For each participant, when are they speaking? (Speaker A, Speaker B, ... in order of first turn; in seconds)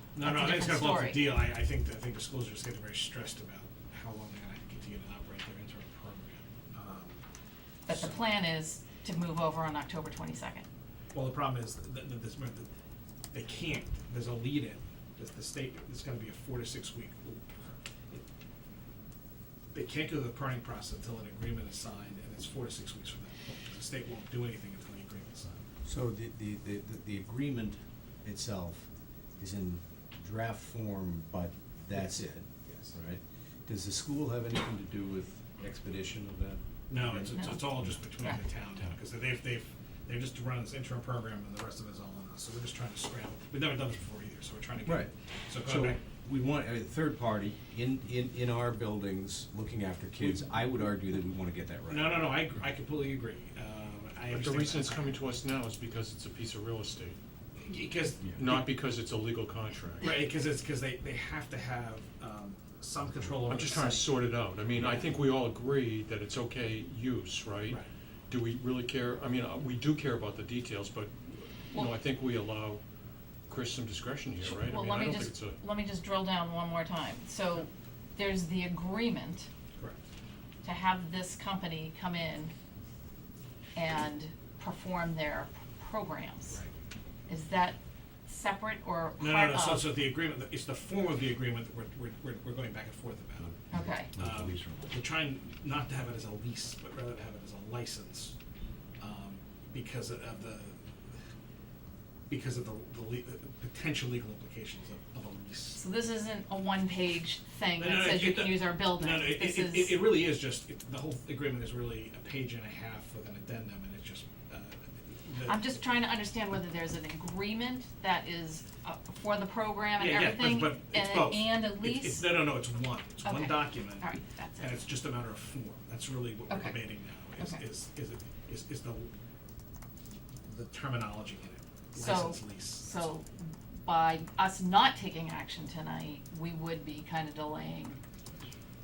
Speaker A: 0.2-7.2, 7.9-8.2, 11.1-12.7, 13.3-18.2, 19.7-25.6, 32.7-32.9, 36.9-46.0, 51.9-55.3, 57.6-58.7, 60.0-64.2, 64.8-65.1, 79.8-80.0, 89.2-93.6, 94.1-98.3, 99.0-100.8, 102.3-105.8, 107.8-115.6, 120.0-129.1, 130.4-133.2
Speaker B: 0.2-1.3, 7.9-10.7, 37.3-38.4, 74.4-79.5, 80.6-82.5, 83.8-86.6, 87.3-90.0, 93.7-94.2, 105.8-110.0, 115.5-122.5, 123.2-124.8, 126.5-126.8, 127.4-127.6, 131.9-138.0
Speaker C: 25.8-37.4, 44.8-52.2, 94.2-94.8
Speaker D: 54.3-57.2, 58.4-60.2, 63.5-72.8, 73.5-75.6